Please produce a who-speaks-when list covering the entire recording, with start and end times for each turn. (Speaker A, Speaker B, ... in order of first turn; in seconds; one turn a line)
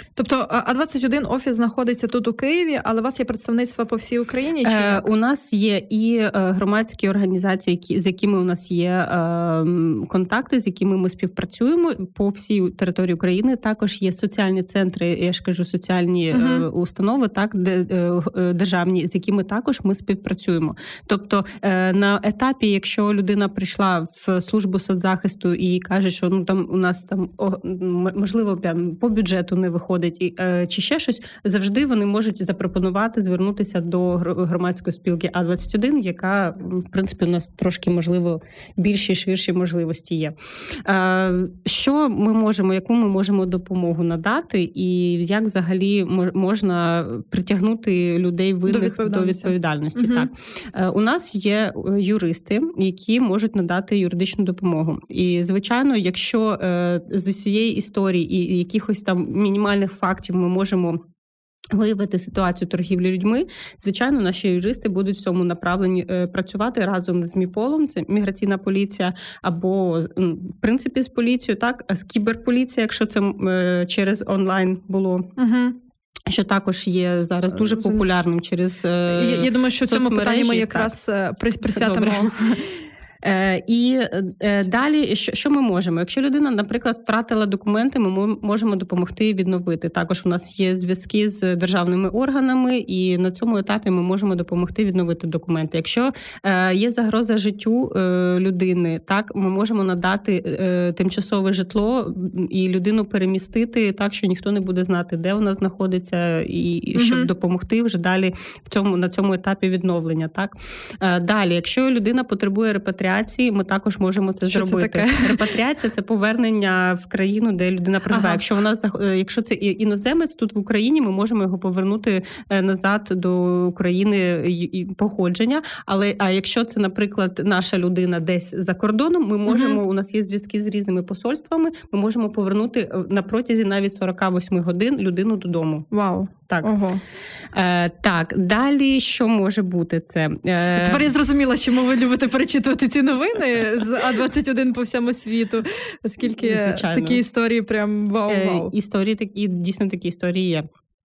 Speaker A: 0.2-5.1
Speaker B: 4.6-61.0
Speaker A: 16.3-16.6
Speaker A: 48.7-50.3
Speaker B: 61.7-75.3
Speaker A: 75.4-75.8
Speaker B: 76.3-80.9
Speaker A: 77.6-78.0
Speaker A: 79.1-82.6
Speaker B: 81.6-82.7
Speaker B: 83.2-135.9
Speaker A: 106.9-107.3
Speaker A: 114.5-115.5
Speaker A: 118.1-118.4
Speaker A: 129.5-129.8
Speaker A: 135.9-137.0
Speaker B: 137.5-141.1
Speaker A: 140.8-148.7
Speaker B: 146.3-147.2
Speaker B: 148.3-150.7